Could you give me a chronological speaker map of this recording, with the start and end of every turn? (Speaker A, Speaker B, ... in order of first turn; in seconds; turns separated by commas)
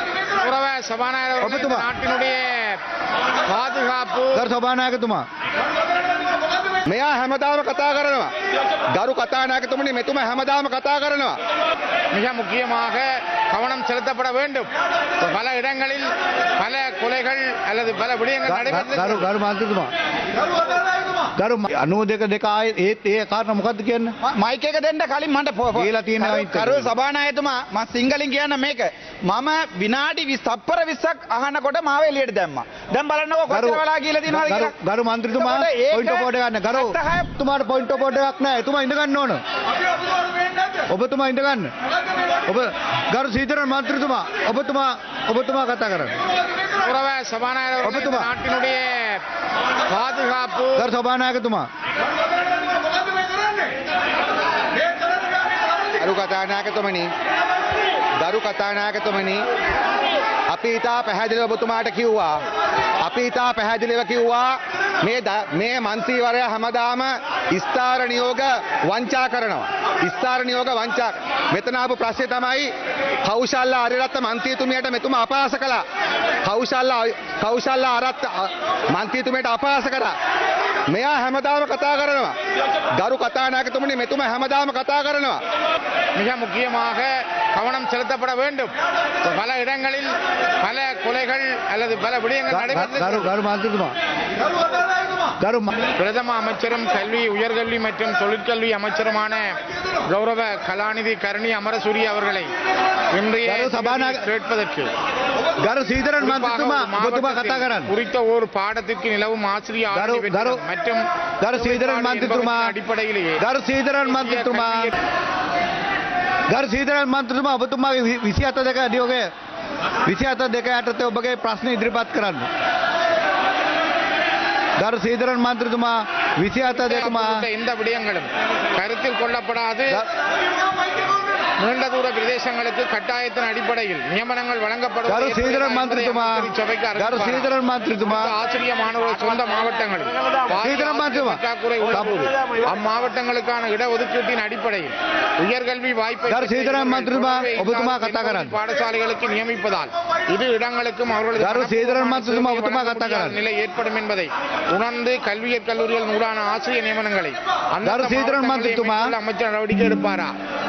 Speaker A: 0.4-2.8, Speaker B: 1.4-1.9, Speaker A: 3.5-4.4, Speaker B: 4.4-5.2, Speaker C: 6.9-8.3, Speaker C: 8.9-11.4, Speaker A: 12.1-14.7, Speaker A: 15.2-19.3, Speaker B: 18.5-19.9, Speaker B: 21.4-24.1, Speaker D: 24.3-34.8, Speaker B: 25.8-26.9, Speaker B: 33.5-39.4, Speaker D: 35.3-37.3, Speaker B: 40.9-41.7, Speaker B: 42.5-46.2, Speaker A: 46.8-49.2, Speaker B: 47.8-48.3, Speaker A: 49.9-50.9, Speaker B: 50.8-51.7, Speaker C: 56.0-57.1, Speaker C: 58.2-59.4, Speaker C: 60.5-62.4, Speaker C: 63.0-72.7, Speaker C: 73.2-75.8, Speaker C: 76.5-80.1, Speaker C: 80.9-82.3, Speaker C: 83.0-85.4, Speaker A: 86.2-88.7, Speaker A: 89.2-90.1, Speaker A: 90.6-93.3, Speaker B: 92.5-93.9, Speaker B: 95.4-95.7, Speaker A: 96.0-99.5, Speaker A: 100.1-102.5, Speaker A: 103.1-104.9, Speaker B: 103.5-104.2, Speaker B: 105.6-107.9, Speaker A: 106.2-113.4, Speaker B: 109.9-110.6, Speaker B: 111.4-112.7, Speaker B: 113.4-114.9, Speaker A: 114.0-115.0, Speaker B: 116.5-119.3, Speaker B: 120.0-122.5, Speaker B: 124.8-127.5, Speaker A: 126.8-130.0, Speaker A: 131.6-137.5, Speaker B: 135.1-136.5, Speaker B: 137.0-138.3, Speaker A: 138.0-160.3, Speaker B: 140.6-142.1, Speaker B: 146.3-148.6, Speaker B: 151.4-153.4, Speaker B: 157.8-159.1